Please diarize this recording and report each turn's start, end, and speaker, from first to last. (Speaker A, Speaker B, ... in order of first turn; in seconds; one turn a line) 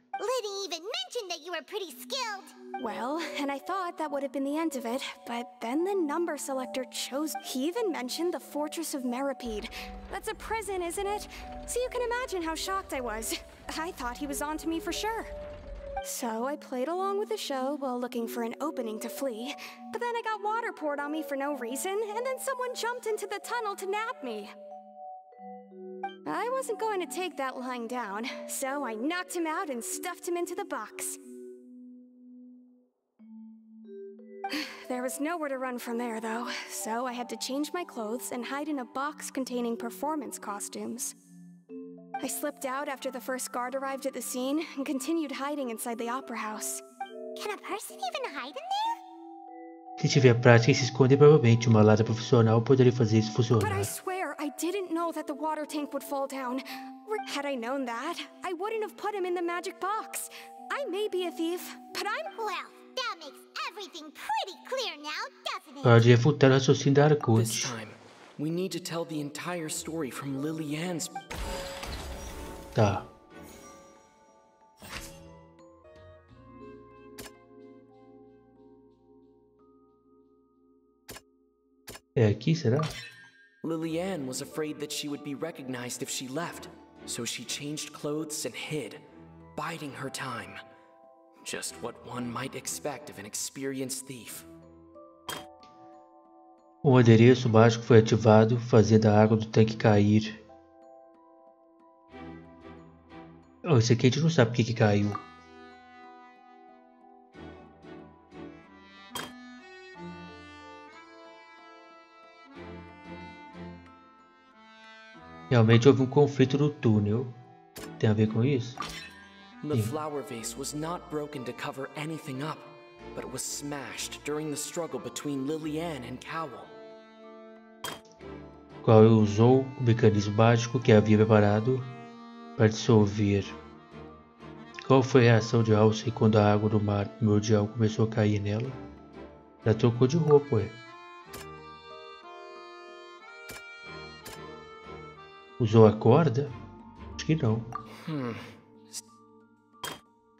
Speaker A: 0.2-2.5
Speaker B: 2.8-15.3
Speaker B: 16.0-24.5
Speaker B: 26.2-31.2
Speaker B: 34.5-41.1
Speaker B: 42.2-46.8
Speaker A: 47.4-49.0
Speaker C: 50.0-53.9
Speaker B: 53.6-62.3
Speaker A: 62.3-66.1
Speaker C: 65.8-67.7
Speaker D: 67.3-71.1
Speaker C: 72.7-73.1
Speaker C: 82.2-82.9
Speaker D: 83.6-90.6
Speaker D: 91.4-94.5
Speaker C: 96.8-100.4
Speaker C: 103.6-105.2
Speaker C: 115.5-117.3
Speaker C: 118.0-118.8
Speaker D: 119.6-126.7
Speaker C: 128.8-131.9
Speaker C: 132.6-133.5
Speaker C: 134.8-138.8
Speaker C: 139.6-140.7
Speaker C: 145.6-146.5
Speaker C: 147.2-147.7
Speaker D: 148.0-148.5